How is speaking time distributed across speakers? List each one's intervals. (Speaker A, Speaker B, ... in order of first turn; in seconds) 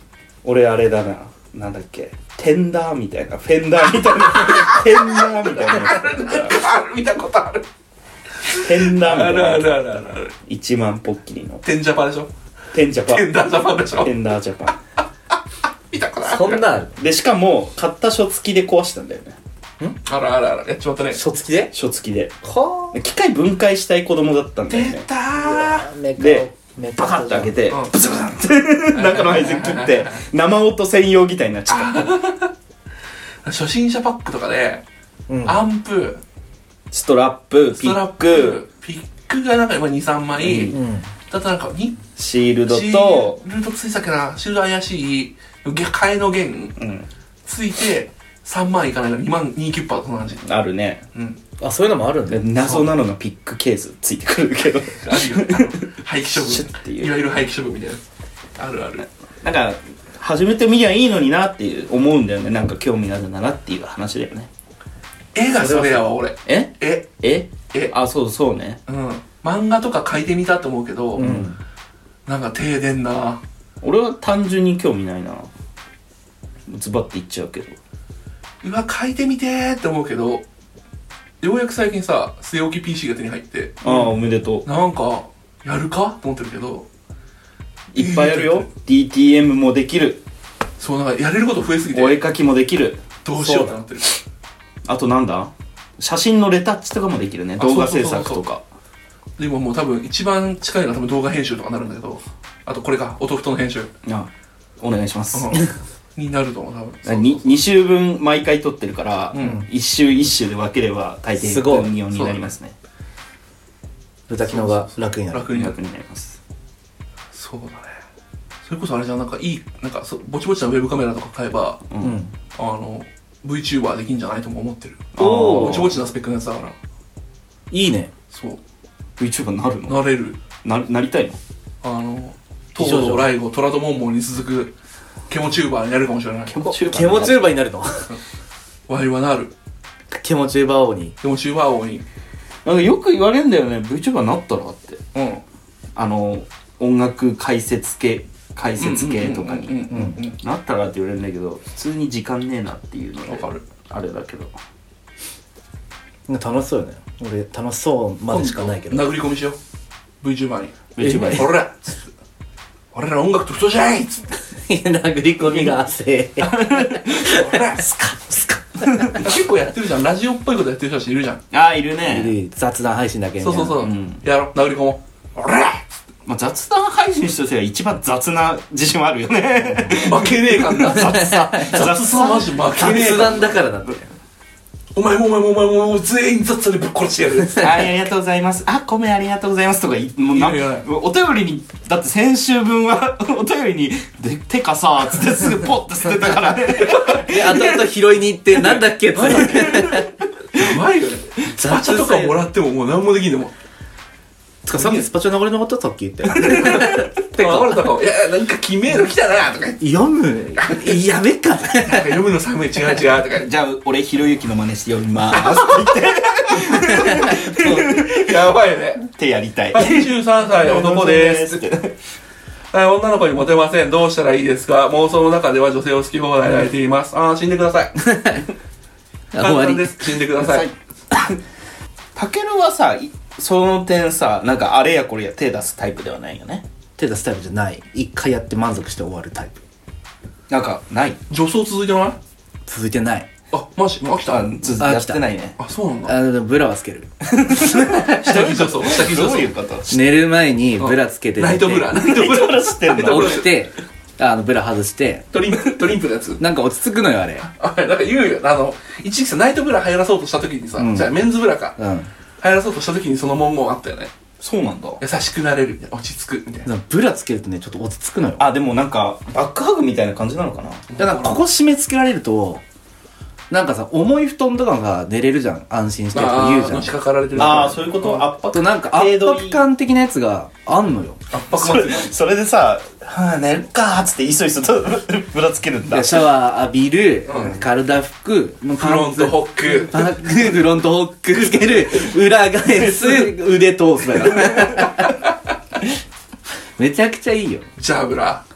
Speaker A: 0.4-6.6, 8.6-11.6, 12.7-14.8, 17.0-19.4, 21.7-22.4, 22.9-25.1, 26.2-32.1, 36.9-38.6, 40.4-40.8, 42.2-43.4, 46.8-47.1, 50.4-51.0, 52.3-57.2, 59.4-64.5, 66.5-68.8, 71.2-71.5, 73.8-75.5, 76.7-77.8, 83.8-84.7, 87.9-90.2, 91.9-93.1, 94.9-98.6, 104.0-105.6, 107.0-112.8, 115.5-116.4, 121.9-122.2, 125.1-126.0, 129.2-130.1, 130.6-131.4, 136.5-137.6, 142.6-145.0, 146.0-154.6, 161.0-161.6, 165.4-165.8, 166.4-167.1, 168.9-169.3, 171.5-172.3, 173.8-174.2, 176.2-183.3, 187.6-197.7, 213.2-218.4, 219.0-221.9, 230.4-231.4, 232.1-236.6, 240.5-241.2, 244.2-245.6, 247.4-250.0, 251.9-253.4, 264.4-265.0, 268.4-270.9, 277.3-279.7, 281.5-286.2
Speaker B: 4.3-7.6, 8.4-10.3, 11.6-12.3, 13.0-14.1, 15.9-16.7, 20.0-21.2, 24.7-25.9, 28.9-30.2, 31.7-32.5, 33.5-34.8, 35.5-36.2, 37.8-40.8, 41.3-42.0, 42.7-46.8, 47.5-50.4, 52.6-53.0, 55.0-58.0, 58.6-59.1, 65.3-67.1, 68.9-71.3, 72.2-73.4, 78.6-80.5, 81.4-86.9, 87.9-88.7, 90.8-92.2, 93.2-94.2, 97.6-98.5, 99.4-103.9, 105.3-107.5, 109.3-109.6, 112.1-112.5, 114.4-115.8, 117.3-118.0, 118.6-121.8, 122.5-126.8, 128.3-128.6, 129.9-130.4, 131.8-134.7, 135.3-136.6, 138.9-139.5, 141.2-142.1, 145.1-145.4, 148.8-150.4, 153.2-153.6, 158.3-159.6, 160.2-161.9, 162.9-164.4, 167.1-167.8, 169.1-171.4, 173.4-175.8, 179.9-183.5, 184.9-187.9, 190.3-190.9, 196.8-197.9, 198.5-203.5, 204.8-205.1, 206.3-209.8, 210.6-211.0, 211.7-213.5, 215.3-219.1, 219.7-221.7, 222.7-227.9, 229.4-230.7, 241.3-242.2, 243.5-244.5, 245.6-246.2, 248.1-249.5, 250.8-253.5, 255.3-256.4, 257.4-261.8, 262.4-264.1, 265.0-266.7, 270.9-271.4, 276.1-278.2, 281.3-282.1, 287.3-287.6, 288.8-290.1, 292.8-293.3, 297.8-298.4
Speaker C: 16.2-17.0, 21.1-21.7, 22.4-23.0, 25.4-27.5, 35.3-35.6, 40.7-41.1, 51.6-52.5, 65.6-66.0, 71.2-71.6, 93.4-93.7, 111.4-112.0, 114.3-115.5, 122.0-122.3, 125.2-125.9, 127.7-128.1, 132.8-133.3, 136.7-138.1, 140.1-141.1, 149.9-150.2, 156.3-159.1, 164.7-169.3, 172.1-173.9, 179.7-180.1, 180.8-184.1, 197.2-200.1, 201.4-202.4, 204.7-207.9, 209.8-212.2, 228.0-228.4, 229.3-230.0, 237.0-239.6, 242.7-243.3, 244.8-245.2, 246.1-248.5, 249.9-251.9, 253.0-255.2, 256.4-257.5, 260.8-261.1, 261.8-262.1, 266.6-268.5, 271.0-272.6, 273.5-276.9, 278.5-281.2, 285.9-295.2, 296.8-297.7